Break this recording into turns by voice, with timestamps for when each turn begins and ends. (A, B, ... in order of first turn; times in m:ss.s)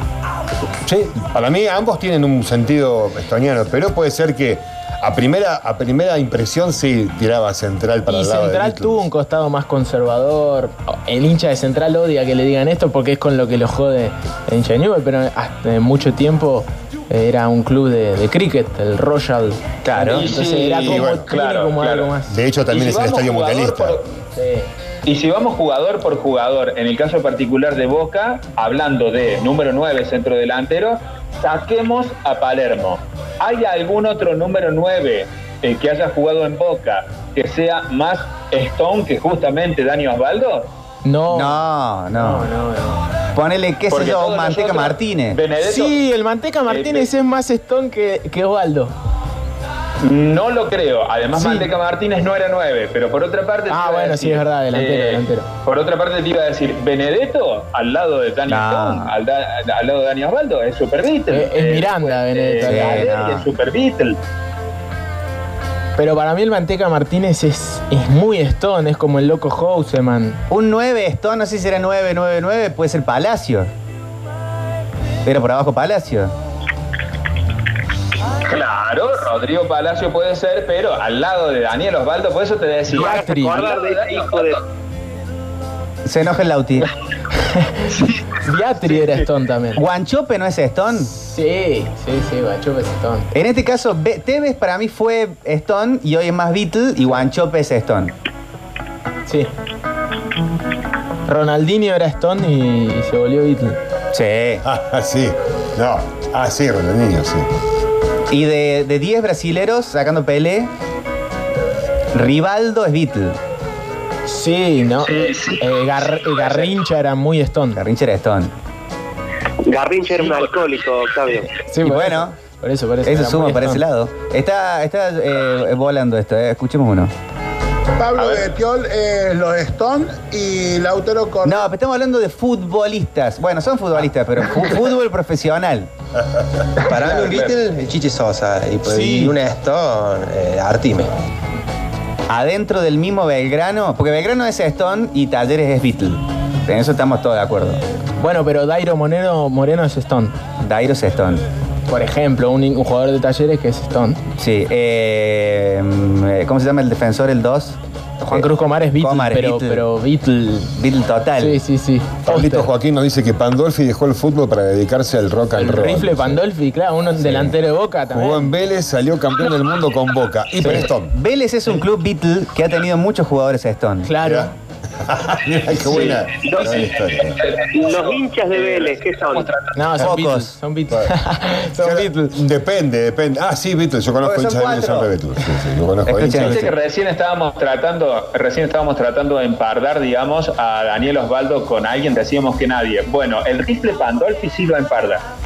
0:00.8-0:09.1 A
0:08.1-0:22.4 B
0:19.8-0:20.2 C
0:20.0-0:22.1 D
0:20.8-0:21.3 A
0:22.3-0:24.0 A
0:22.7-0:24.1 D
0:24.4-0:24.7 B
0:25.1-0:40.7 D
0:41.0-0:41.6 B
0:41.3-0:42.5 C
0:42.1-0:43.0 B
0:43.4-0:45.4 C
0:43.9-0:46.0 D
0:45.6-0:49.0 B
0:46.7-0:47.1 D
0:50.0-1:04.2 D
0:51.4-0:51.7 B
0:53.7-0:55.5 B
0:58.5-0:59.1 C
1:01.3-1:03.2 B
1:02.6-1:03.5 C
1:06.0-1:10.4 B
1:10.5-1:13.7 C
1:15.2-1:16.3 C
1:18.4-1:24.6 D
1:22.9-1:23.6 B
1:23.0-1:24.6 E
1:26.0-1:26.9 C
1:27.4-1:27.9 B
1:27.9-1:28.2 D
1:28.4-1:29.8 B
1:28.9-1:29.2 D
1:29.8-1:31.1 C
1:31.2-1:33.3 B
1:33.3-1:38.1 C
1:41.3-1:43.8 B
1:44.1-1:44.6 C
1:44.6-1:47.5 A
1:48.3-1:50.7 C
1:52.1-1:53.4 C
1:54.3-1:57.8 B
1:55.0-1:55.6 D
1:56.2-1:56.7 D
1:57.8-1:58.5 C
1:59.6-2:01.5 E
2:00.2-2:00.5 D
2:01.6-2:03.8 B
2:01.8-2:02.4 C
2:03.0-2:07.1 C
2:08.0-2:11.7 F
2:08.2-2:08.5 D
2:11.4-2:15.9 C
2:16.8-2:21.1 G
2:16.9-2:17.6 D
2:18.8-2:19.4 B
2:22.3-2:27.8 C
2:28.2-2:30.4 B
2:30.6-2:31.4 C
2:31.9-2:34.2 B
2:34.4-2:37.8 C
2:38.2-2:40.7 B
2:38.3-2:39.9 C
2:40.8-2:41.6 C
2:41.4-2:42.7 B
2:42.3-2:46.4 A
2:45.6-2:48.5 B
2:47.2-2:47.6 A
2:48.1-2:51.2 A
2:50.6-2:50.9 B
2:51.1-2:54.1 C
2:54.0-2:54.5 B
2:54.2-2:57.4 A
2:55.8-2:59.6 D
2:56.5-2:56.8 E
2:57.7-2:59.6 E
2:59.8-3:02.4 B
3:00.0-3:00.5 C
3:01.8-3:06.7 A
3:04.2-3:05.1 C
3:06.1-3:06.7 C
3:06.3-3:15.2 D